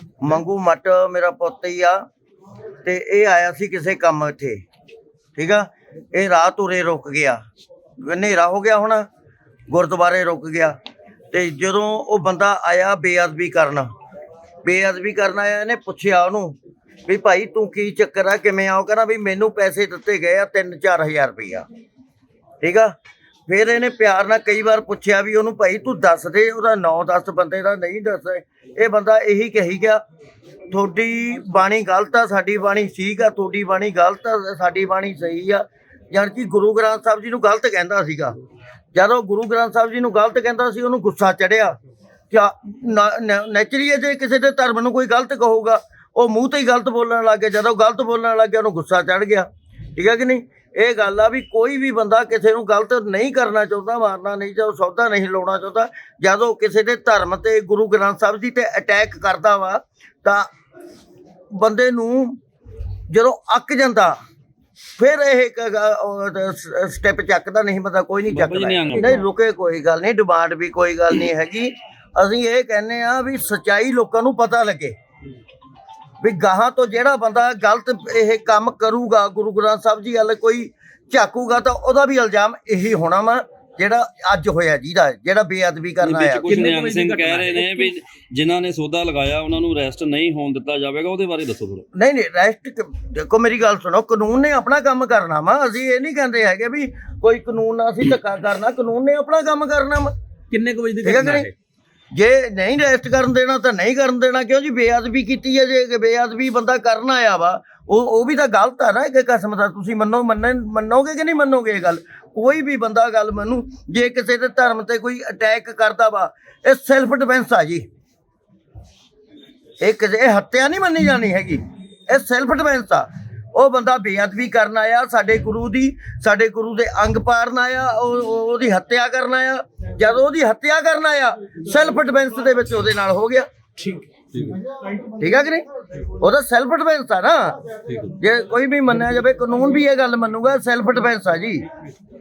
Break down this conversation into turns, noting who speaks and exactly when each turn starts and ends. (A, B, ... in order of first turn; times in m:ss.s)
0:00.2-0:02.0 A
0:02.8-0:04.6 A
0:05.4-0:07.4 A
0:08.0-0:09.1 A
0:09.7-0:10.8 A
0:11.3-0:13.9 A
0:14.6-0:21.7 A
0:22.6-0:22.9 A
0:23.5-0:30.0 A
0:30.7-0:38.4 A
0:38.9-0:41.8 A
0:42.3-1:00.5 A
1:01.5-1:02.4 A
1:03.1-1:04.2 A
1:05.0-1:15.0 A
1:08.3-1:09.2 B
1:16.2-1:26.7 A
1:26.0-1:31.8 B
1:26.4-1:27.7 C
1:31.9-1:40.1 A
1:40.5-1:41.5 C
1:41.0-1:41.5 A
1:42.1-1:57.9 A
1:59.8-2:13.5 A
2:15.2-2:15.6 A
2:16.2-2:17.6 A
2:18.2-2:21.6 A